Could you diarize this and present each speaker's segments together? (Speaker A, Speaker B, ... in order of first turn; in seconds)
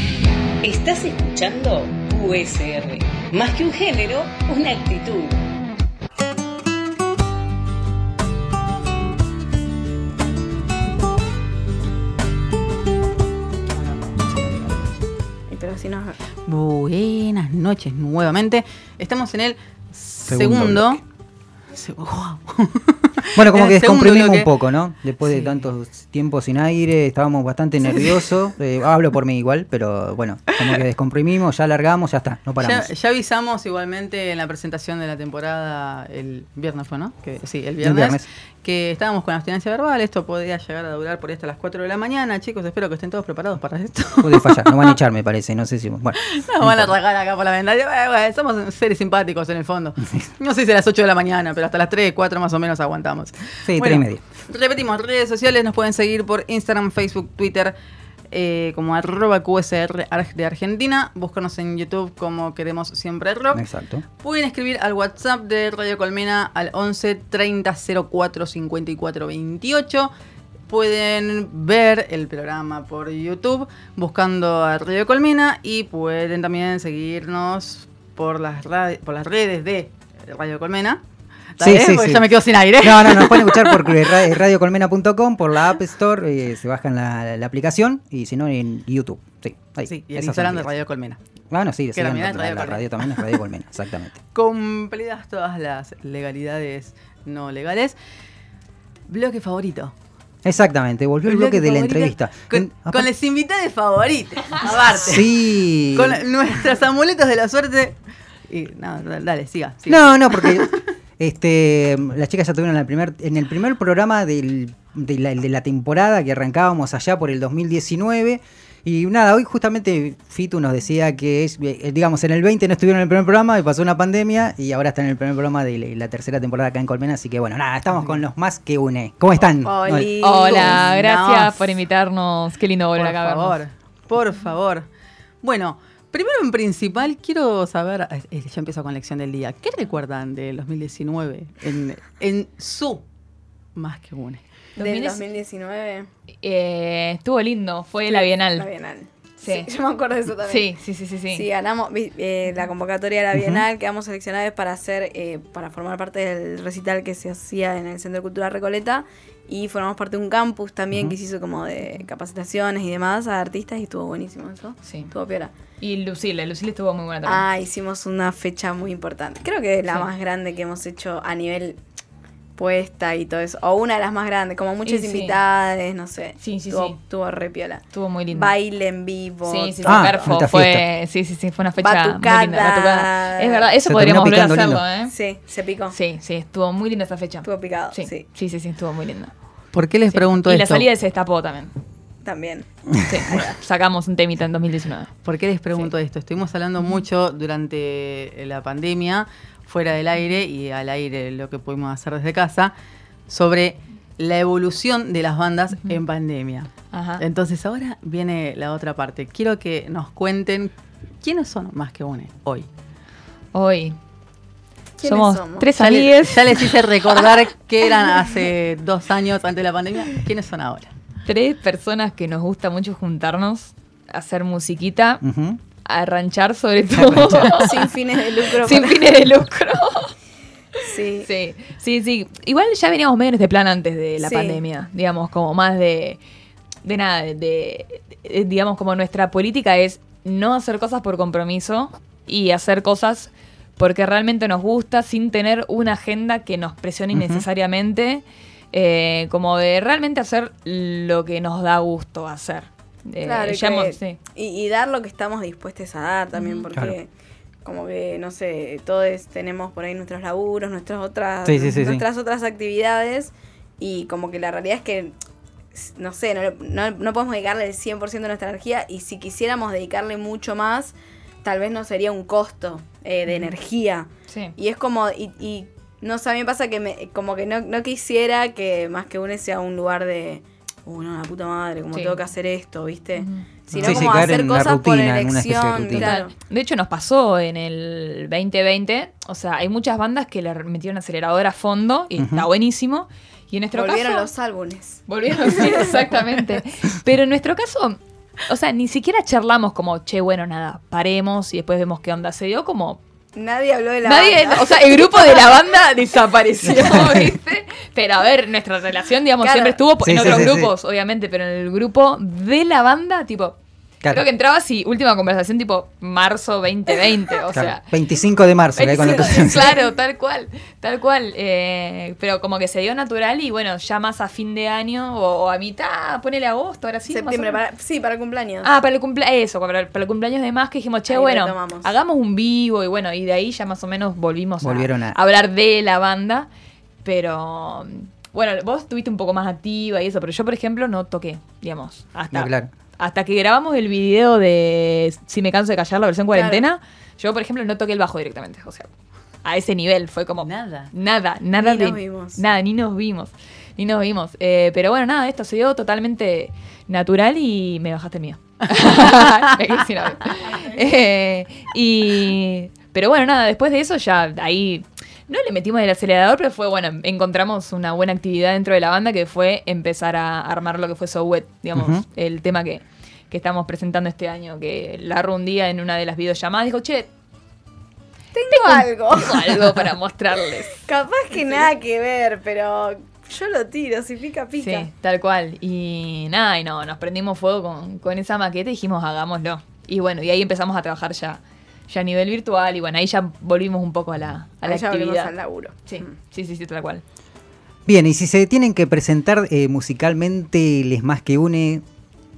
Speaker A: 0.6-5.4
Speaker B: 15.5-16.2, 129.7-130.8, 144.8-146.1, 148.1-150.7, 151.3-165.5, 167.2-171.8, 172.6-180.3, 181.8-183.7, 185.1-186.0, 187.4-188.2, 192.2-192.7, 215.0-215.7, 227.6-229.1, 230.8-231.3, 234.2-234.6, 253.2-257.1, 257.6-265.1, 265.7-286.3, 293.7-295.0, 303.4-305.4, 309.4-310.5, 319.3-319.9, 327.1-328.7, 331.1-331.9, 346.3-346.6, 351.6-352.4, 378.3-379.8, 380.9-384.9, 394.6-396.0
Speaker C: 16.5-21.0, 21.7-24.5, 25.2-25.6, 27.8-28.3, 32.6-45.0, 46.2-57.8, 58.3-63.6, 64.2-70.1, 70.7-81.0, 81.6-84.3, 89.9-91.2, 92.0-93.3, 94.3-98.0, 99.1-99.9, 101.2-108.0, 108.5-110.8, 127.9-128.2, 130.4-131.7, 133.0-134.9, 135.4-143.0, 143.8-144.4, 189.7-190.9, 195.2-202.7, 203.3-212.7, 215.8-220.9, 350.4-350.9, 359.1-359.4
Speaker D: 20.3-21.0, 23.4-32.9, 37.8-38.3, 44.2-46.9, 53.6-54.2, 63.5-64.0, 81.6-90.7, 91.5-94.2, 100.4-103.1, 105.0-106.2, 109.9-130.1, 153.3-153.6, 179.9-180.8, 183.9-184.8, 225.2-225.6, 226.9-227.5, 247.1-247.5, 261.4-262.1, 283.8-286.2, 292.2-292.5, 306.7-307.4, 310.0-310.7, 317.5-319.7, 334.6-335.2, 342.3-342.7, 371.7-372.0, 397.9-401.8
Speaker E: 130.2-133.6, 144.8-145.2, 146.4-148.7, 149.4-149.7, 150.5-151.5, 164.8-165.1, 165.8-167.4, 174.8-175.4, 176.4-177.0, 177.9-178.5, 179.5-185.1, 185.9-189.3, 190.1-191.7, 193.1-195.1, 206.9-207.2, 213.5-214.0, 215.0-216.8, 221.2-225.2, 225.8-227.8, 228.4-230.1, 231.2-236.2, 236.8-254.2, 256.4-256.6, 274.3-274.6, 283.2-284.1, 285.9-294.3, 295.1-303.0, 304.0-313.6, 314.1-317.9, 318.8-327.6, 328.6-336.5, 337.0-348.9, 349.4-377.1, 378.5-380.8, 384.6-395.3, 395.9-397.0